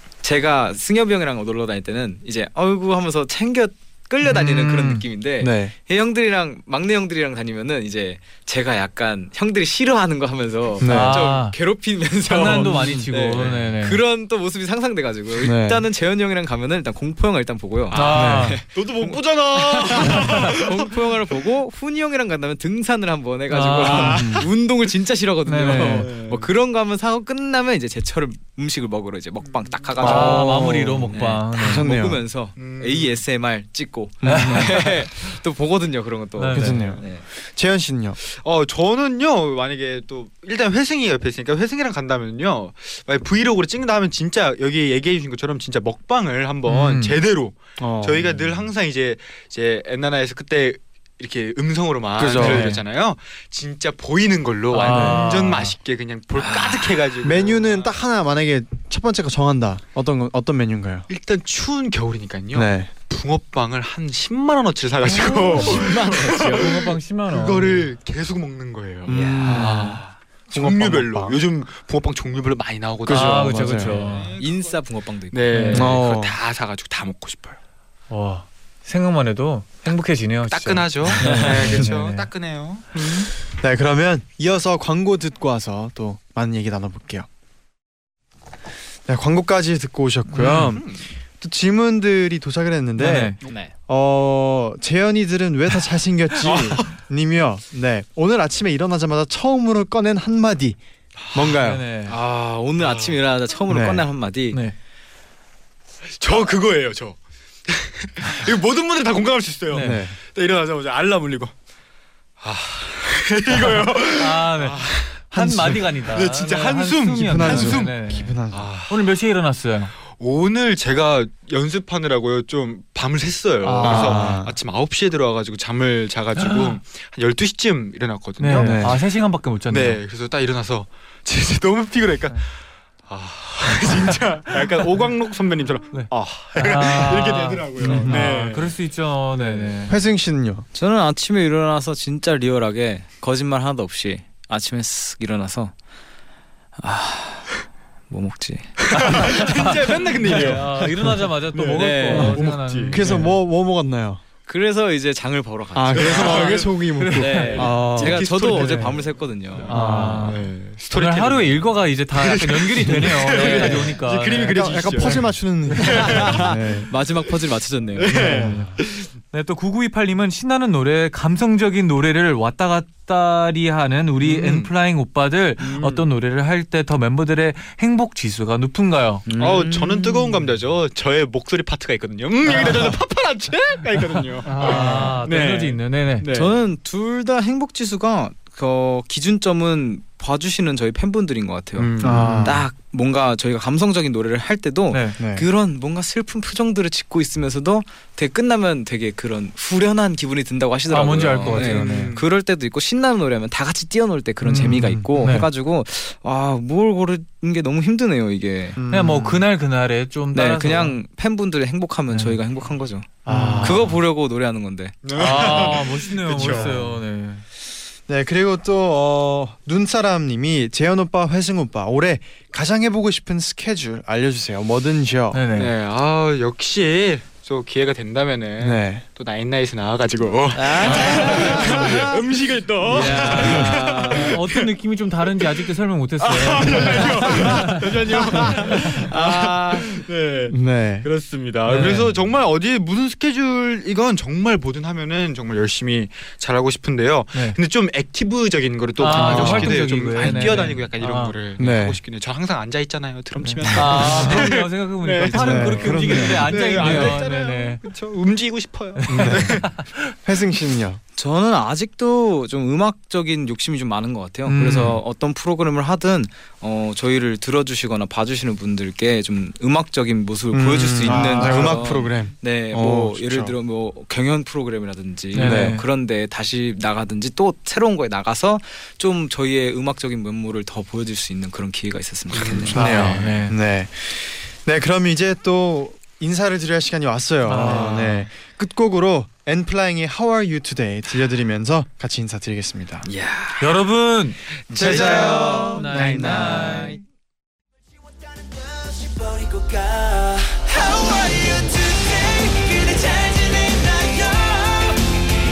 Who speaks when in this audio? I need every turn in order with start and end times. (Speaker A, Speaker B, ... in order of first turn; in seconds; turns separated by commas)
Speaker A: 0.2-37.2, Speaker B: 4.2-5.0, Speaker C: 5.4-5.7, Speaker C: 10.8-11.2, Speaker B: 10.8-11.6, Speaker B: 12.3-14.0, Speaker C: 15.4-15.8, Speaker D: 17.9-21.4, Speaker B: 17.9-18.6, Speaker C: 18.1-18.6, Speaker B: 23.5-24.4, Speaker D: 23.8-24.5, Speaker C: 24.0-24.5, Speaker B: 25.4-26.1, Speaker D: 25.8-26.5, Speaker D: 29.5-30.0, Speaker C: 30.0-32.2, Speaker B: 30.0-31.9, Speaker D: 32.6-33.2, Speaker C: 34.2-34.8, Speaker B: 34.2-34.9, Speaker B: 36.4-36.9, Speaker C: 36.5-38.2, Speaker D: 38.2-57.8, Speaker B: 46.7-47.2, Speaker C: 47.8-48.5, Speaker C: 52.2-52.8, Speaker B: 52.3-52.8, Speaker B: 54.7-55.8, Speaker C: 54.8-55.3, Speaker A: 56.4-56.9, Speaker C: 57.2-61.1, Speaker D: 61.1-77.6, Speaker C: 62.5-62.9, Speaker B: 65.1-67.9, Speaker A: 65.2-66.8, Speaker C: 69.1-71.4, Speaker A: 69.1-69.8, Speaker B: 69.5-70.0, Speaker C: 73.0-74.0, Speaker B: 73.1-74.3, Speaker A: 74.4-75.5, Speaker B: 75.5-75.9, Speaker C: 75.7-76.3, Speaker B: 78.1-82.3, Speaker D: 80.5-83.3, Speaker C: 81.2-81.9, Speaker A: 81.2-81.5, Speaker C: 83.5-87.3, Speaker C: 89.1-100.8, Speaker B: 90.3-90.8, Speaker D: 90.7-91.0, Speaker B: 93.0-93.4, Speaker A: 93.5-93.7, Speaker D: 96.4-96.9, Speaker D: 101.2-101.5, Speaker C: 101.3-101.8, Speaker B: 101.5-102.2, Speaker A: 102.1-104.6, Speaker D: 102.8-103.2, Speaker C: 103.7-104.0, Speaker D: 106.2-111.5, Speaker B: 109.7-110.0, Speaker C: 109.8-110.2, Speaker D: 112.4-119.1, Speaker B: 114.1-120.0, Speaker C: 115.3-115.8, Speaker C: 117.2-118.7, Speaker D: 120.1-129.0, Speaker B: 123.6-124.4, Speaker C: 123.8-124.6, Speaker B: 126.3-126.8, Speaker B: 128.4-130.0, Speaker C: 128.5-129.0, Speaker D: 129.7-132.5, Speaker D: 133.1-138.8, Speaker B: 135.9-140.0, Speaker C: 137.8-138.4, Speaker D: 139.4-139.7, Speaker C: 139.9-140.7, Speaker A: 140.7-145.7, Speaker A: 146.8-147.5, Speaker A: 148.1-149.2, Speaker D: 148.9-150.9, Speaker B: 148.9-153.3, Speaker C: 150.3-151.1, Speaker D: 151.5-153.0, Speaker A: 151.8-152.3, Speaker C: 152.9-154.2, Speaker A: 154.5-160.2, Speaker C: 155.7-158.3, Speaker D: 155.9-166.5, Speaker B: 157.0-157.7, Speaker B: 158.5-158.9, Speaker B: 159.7-165.2, Speaker C: 159.7-160.4, Speaker A: 163.3-164.0, Speaker C: 164.3-166.9, Speaker A: 165.8-168.6, Speaker D: 168.0-169.1, Speaker C: 168.1-168.7, Speaker B: 168.1-168.6, Speaker B: 169.3-179.3, Speaker D: 174.2-174.7, Speaker D: 175.6-176.1, Speaker A: 179.3-180.2, Speaker D: 179.4-186.6, Speaker B: 184.4-186.3, Speaker C: 184.6-185.2, Speaker A: 186.3-208.8, Speaker D: 191.8-192.6, Speaker C: 192.0-192.7, Speaker B: 194.9-195.2, Speaker C: 195.2-195.5, Speaker B: 200.9-202.1, Speaker D: 201.3-202.3, Speaker B: 204.4-205.5, Speaker C: 208.8-209.4, Speaker B: 208.9-211.0, Speaker A: 210.3-215.0, Speaker B: 212.1-212.4, Speaker B: 213.2-214.0, Speaker C: 213.3-213.8, Speaker D: 215.0-216.7, Speaker B: 215.2-217.4, Speaker C: 216.4-217.0, Speaker C: 218.1-225.4, Speaker B: 225.3-225.7, Speaker D: 225.5-234.7, Speaker C: 228.6-229.0, Speaker A: 230.5-232.2, Speaker B: 230.8-232.1, Speaker A: 232.8-234.3, Speaker B: 232.9-237.9, Speaker D: 236.2-259.8, Speaker A: 238.4-240.0, Speaker B: 238.5-239.0, Speaker C: 240.5-241.1, Speaker B: 241.7-242.1, Speaker C: 241.7-242.1, Speaker B: 249.0-251.4, Speaker C: 249.1-250.7, Speaker C: 251.6-252.0, Speaker C: 253.4-254.5, Speaker B: 253.7-257.8, Speaker C: 255.3-257.2, Speaker B: 259.0-260.0, Speaker C: 259.1-259.7, Speaker C: 260.2-261.0, Speaker A: 261.2-282.8, Speaker B: 264.5-265.0, Speaker C: 270.5-273.6, Speaker D: 271.1-272.0, Speaker B: 271.2-271.6, Speaker B: 275.3-275.9, Speaker C: 275.4-275.8, Speaker D: 282.3-283.3, Speaker C: 282.7-293.1, Speaker B: 282.7-283.6, Speaker B: 287.4-288.3, Speaker A: 293.1-293.8, Speaker B: 293.6-297.0, Speaker D: 294.7-295.7, Speaker C: 294.7-296.1, Speaker A: 294.8-297.0, Speaker E: 298.2-305.1